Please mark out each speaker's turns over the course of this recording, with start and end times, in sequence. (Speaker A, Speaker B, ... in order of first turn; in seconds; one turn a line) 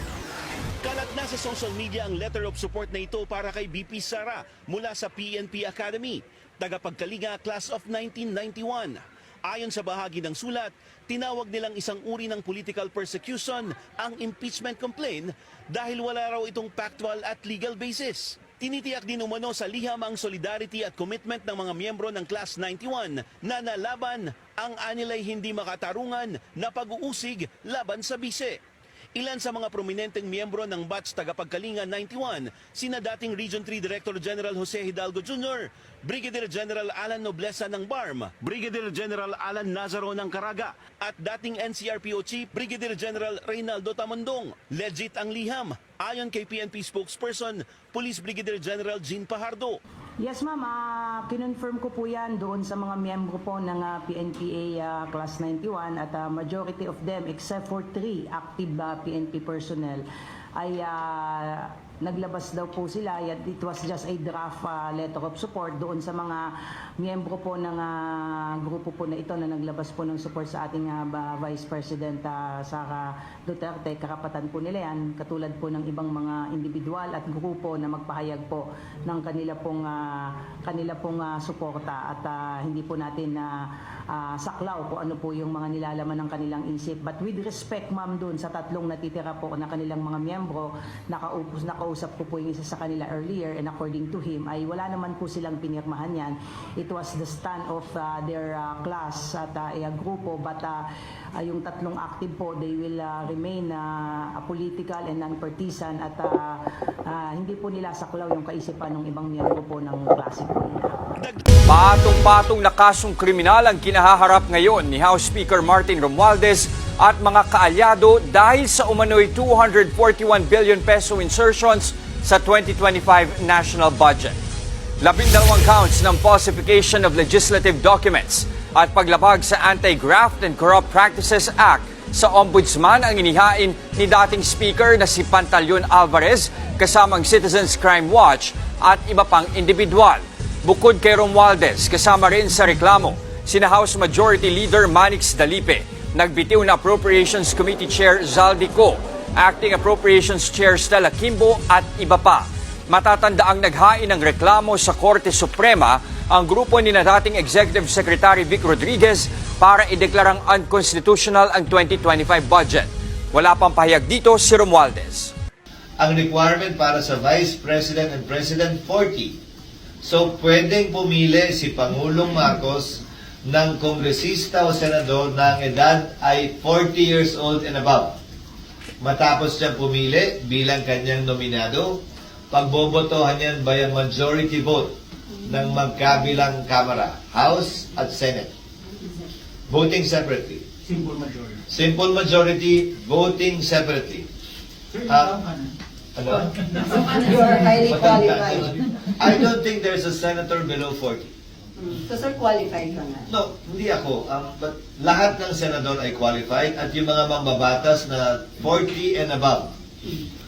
Speaker A: 0.8-28.6
Speaker A: 29.1-49.8
Speaker B: 50.2-100.8
Speaker B: 101.4-111.0
Speaker A: 111.2-111.5
Speaker C: 111.7-124.4
Speaker C: 125.0-165.3
Speaker D: 166.0-169.4
Speaker D: 170.0-178.2
Speaker D: 179.0-188.5
Speaker D: 189.7-190.7
Speaker D: 191.7-194.3
Speaker D: 195.0-195.6
Speaker D: 196.2-196.9
Speaker E: 196.8-198.6
Speaker D: 197.7-201.3
Speaker E: 201.8-203.3
Speaker D: 203.3-209.7